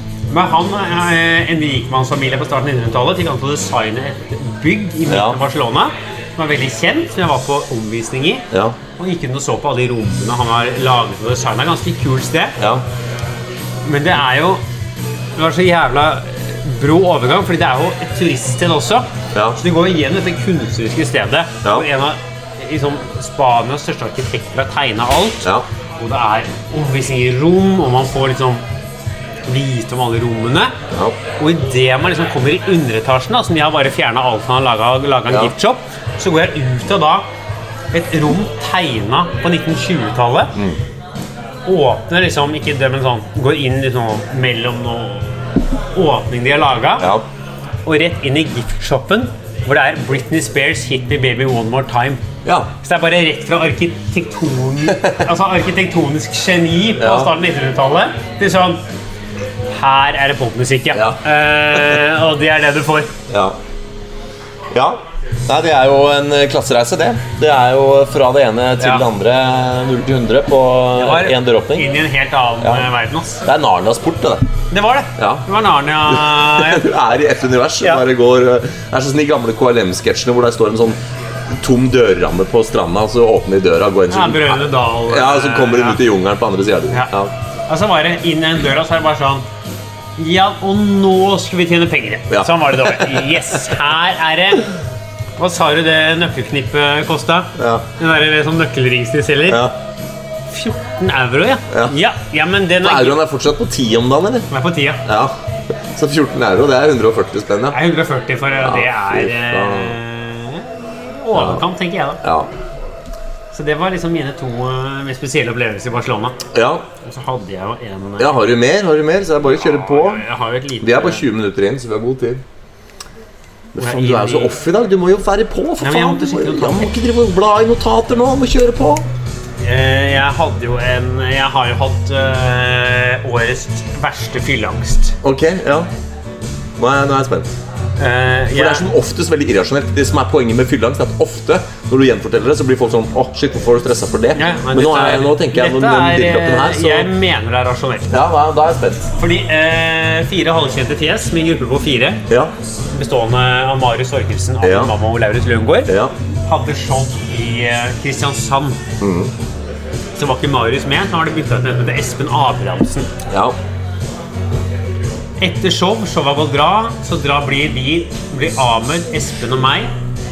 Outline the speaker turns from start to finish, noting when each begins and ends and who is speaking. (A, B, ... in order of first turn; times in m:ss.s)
0:00.3-0:12.6 A
0:05.1-0:05.4 B
0:12.6-0:12.8 B
0:13.8-0:14.6 A
0:15.4-0:28.6 A
0:19.3-0:19.6 B
0:29.4-0:30.8 A
0:30.9-0:31.2 B
0:31.4-0:37.2 A
0:37.9-0:40.6 A
0:41.6-0:45.3 A
0:45.9-0:47.1 A
0:47.8-0:52.2 A
0:52.4-0:52.7 B
0:52.8-0:58.8 A
0:54.9-0:55.2 B
0:57.0-0:57.3 B
0:59.7-1:03.1 A
1:00.9-1:01.2 B
1:01.7-1:02.0 B
1:03.3-1:03.6 B
1:04.7-1:11.9 B
1:10.9-1:13.4 A
1:12.6-1:12.9 B
1:13.4-1:14.5 B
1:14.7-1:16.9 A
1:15.2-1:15.4 B
1:16.1-1:21.0 B
1:21.5-1:27.3 B
1:24.1-1:26.0 A
1:27.7-1:29.4 A
1:30.2-1:34.7 A
1:32.3-1:33.3 B
1:35.4-1:39.6 A
1:37.6-1:37.8 B
1:39.5-1:39.7 B
1:40.5-1:43.2 A
1:42.8-1:44.5 B
1:44.5-1:45.0 A
1:45.0-1:45.3 B
1:45.9-1:47.8 B
1:47.7-1:52.2 A
1:48.6-1:50.0 B
1:51.3-1:51.6 B
1:52.2-1:52.5 B
1:53.5-1:56.4 A
1:56.5-1:56.8 B
1:57.0-1:58.3 A
1:58.2-2:00.2 B
1:59.6-2:01.2 A
2:00.8-2:02.4 B
2:03.7-2:09.0 B
2:03.8-2:04.5 A
2:05.8-2:06.9 A
2:09.6-2:15.2 A
2:15.2-2:15.9 B
2:16.8-2:17.5 B
2:18.0-2:18.9 A
2:18.5-2:27.1 B
2:24.3-2:28.1 A
2:28.1-2:29.1 B
2:29.2-2:32.2 A
2:32.9-2:35.9 A
2:34.6-2:34.9 B
2:36.5-2:38.8 A
2:39.0-2:39.3 B
2:40.2-2:43.1 A
2:43.3-2:43.6 B
2:45.4-2:49.9 A